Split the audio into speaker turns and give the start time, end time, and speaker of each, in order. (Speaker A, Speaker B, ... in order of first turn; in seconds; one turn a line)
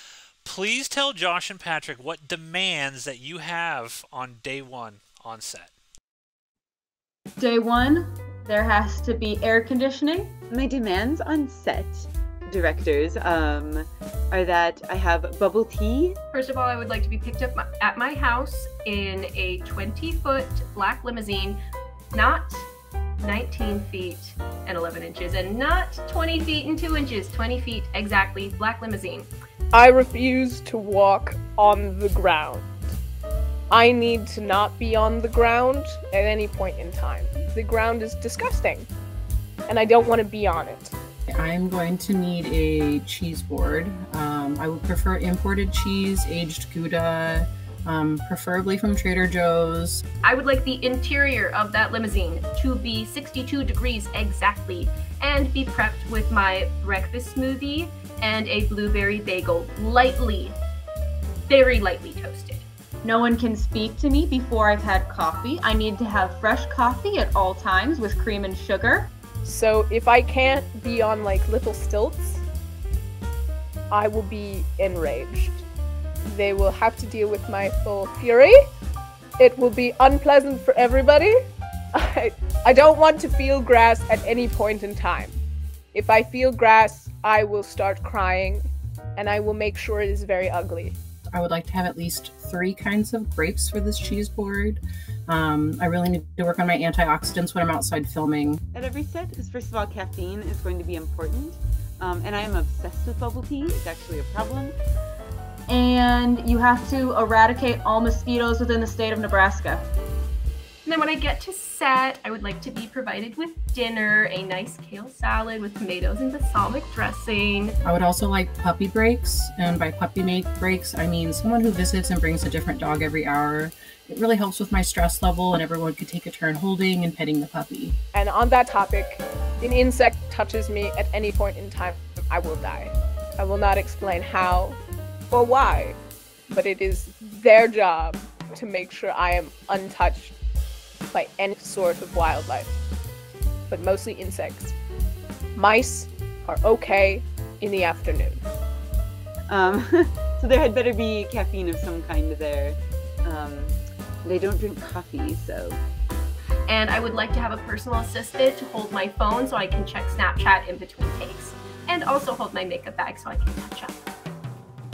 Speaker A: 0.5-5.7
Speaker B: 7.4-10.4
Speaker C: 10.5-16.2
Speaker D: 16.3-21.6
Speaker D: 22.1-22.7
Speaker D: 23.2-29.3
Speaker E: 29.7-32.9
Speaker E: 33.7-38.9
Speaker E: 39.7-40.9
Speaker F: 41.3-50.0
Speaker D: 50.2-60.6
Speaker D: 61.5-62.6
Speaker B: 63.0-69.1
Speaker E: 69.4-72.4
Speaker E: 73.9-75.7
Speaker E: 76.2-78.7
Speaker E: 79.4-81.4
Speaker E: 81.9-85.4
Speaker E: 85.9-91.0
Speaker F: 91.3-98.6
Speaker C: 98.7-104.8
Speaker B: 105.7-109.8
Speaker D: 110.8-117.8
Speaker F: 117.8-128.0
Speaker E: 128.1-134.8
Speaker E: 135.3-136.0
Speaker E: 136.5-140.3
Speaker E: 141.1-142.8
Speaker E: 143.7-144.8
Speaker E: 145.6-148.4
Speaker C: 149.5-155.8
Speaker D: 156.7-164.0